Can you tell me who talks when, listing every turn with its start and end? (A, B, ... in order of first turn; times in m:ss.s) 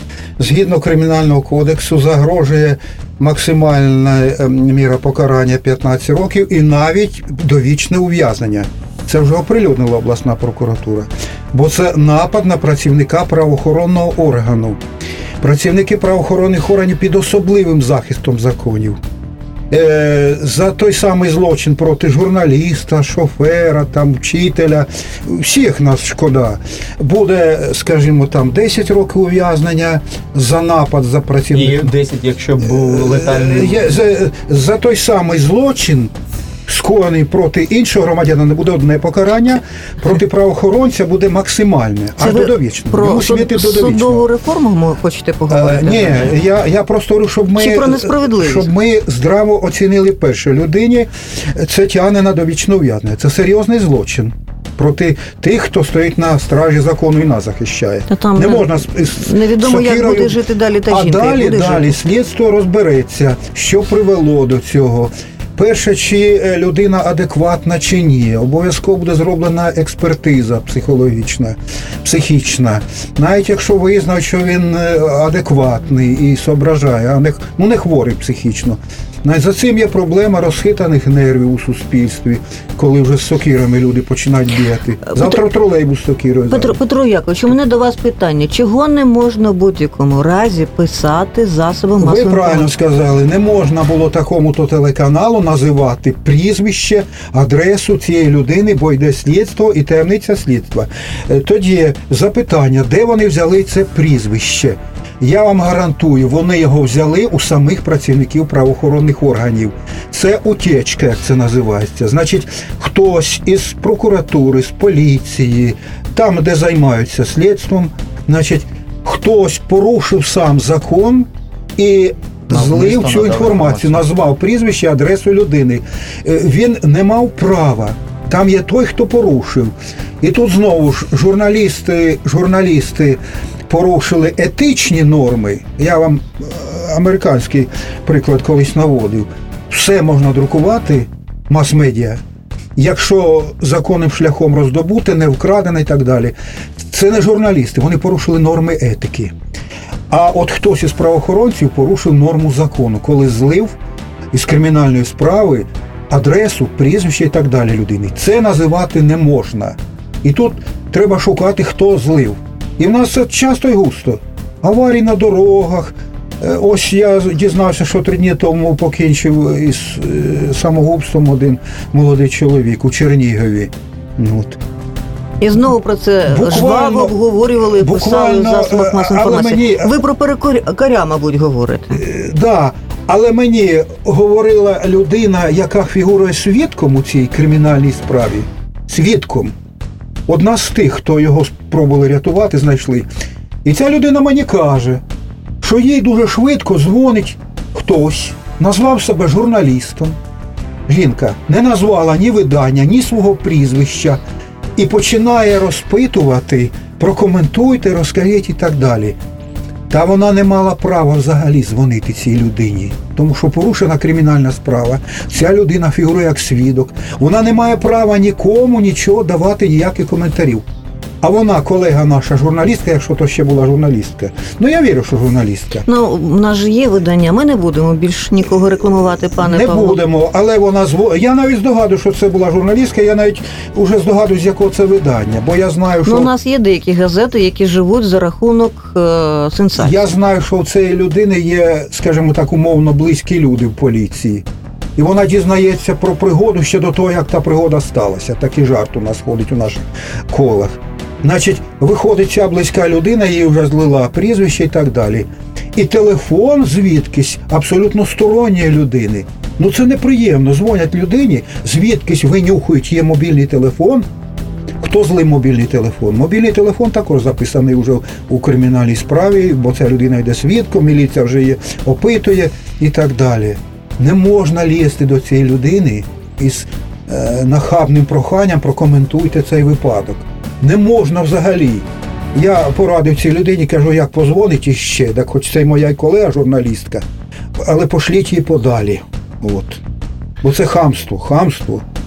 0:00.4-0:14.8 A
0:15.4-0:19.0 A
0:19.7-0:31.9 A
0:31.5-0:34.0 B
0:32.6-0:36.1 A
0:36.7-0:44.3 A
0:42.2-0:46.4 C
0:45.5-1:26.8 A
0:47.6-0:48.7 C
0:58.1-1:02.0 C
1:25.1-1:25.4 C
1:26.5-1:32.7 C
1:32.0-2:22.2 A
2:02.5-2:04.0 B
2:22.8-2:29.3 A
2:30.1-2:33.8 A
2:34.3-2:54.6 A
2:55.4-3:02.0 C
2:56.3-2:59.9 A
3:01.9-3:09.5 A
3:10.3-3:13.1 A
3:13.6-3:15.0 A
3:15.6-3:20.2 A
3:20.9-3:24.2 A
3:24.8-3:29.2 A
3:29.9-3:40.6 A
3:41.2-3:45.9 A
3:45.9-3:50.0 C
3:49.4-3:56.3 A
3:56.0-4:00.1 C
3:59.8-4:24.1 A
4:24.8-4:47.0 A
4:47.6-4:49.8 A
4:50.4-4:51.8 A